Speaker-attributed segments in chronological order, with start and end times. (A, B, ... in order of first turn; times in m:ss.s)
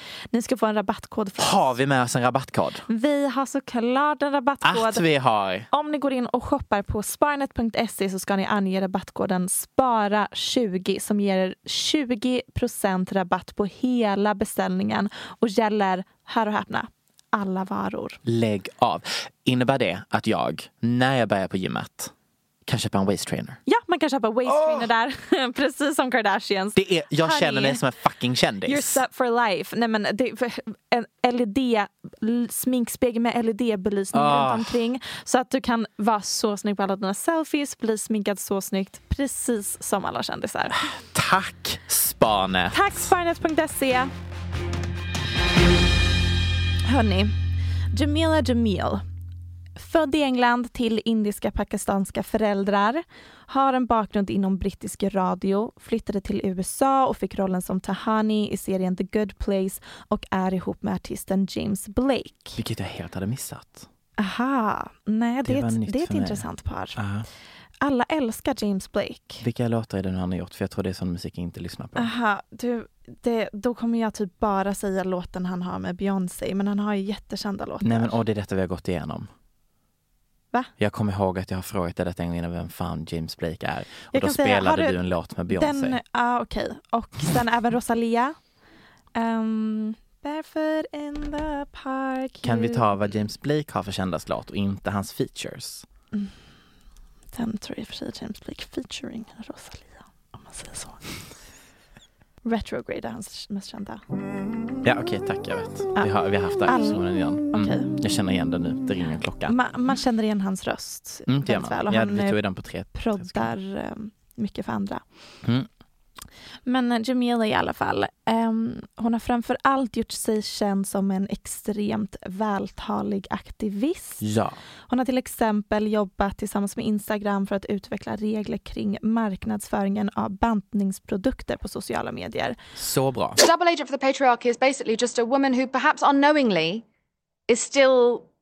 0:00.3-0:01.7 A
0:01.4-0:02.8 B
0:02.9-0:05.0 A
0:04.6-0:05.7 B
0:05.7-0:18.2 A
0:18.2-0:22.1 B
0:22.7-0:23.6 B
0:23.7-0:27.8 A
0:24.5-0:24.9 B
0:26.8-0:29.0 B
0:28.6-0:40.8 A
0:34.1-0:34.8 B
0:40.8-0:43.1 B
0:42.7-0:44.1 A
0:46.8-0:47.4 A
0:47.9-0:49.0 A
0:49.8-1:02.6 A
1:02.6-1:03.9 B
1:04.2-1:07.0 A
1:05.4-1:07.3 B
1:07.8-1:09.4 A
1:09.4-1:12.1 B
1:12.0-1:18.2 A
1:17.8-1:19.3 B
1:20.8-1:26.0 B
1:24.1-1:25.0 A
1:25.5-1:28.4 A
1:29.2-1:32.9 A
1:32.4-1:35.9 B
1:37.3-1:41.0 A
1:42.4-1:44.0 A
1:44.8-1:49.6 B
1:46.6-1:47.9 A
1:49.5-1:52.4 A
1:51.3-1:53.5 B
1:52.9-1:55.0 A
1:56.7-2:04.2 A
2:04.2-2:04.6 B
2:04.9-2:12.6 A
2:12.8-2:13.4 B
2:13.4-2:16.8 C
2:17.5-2:18.3 C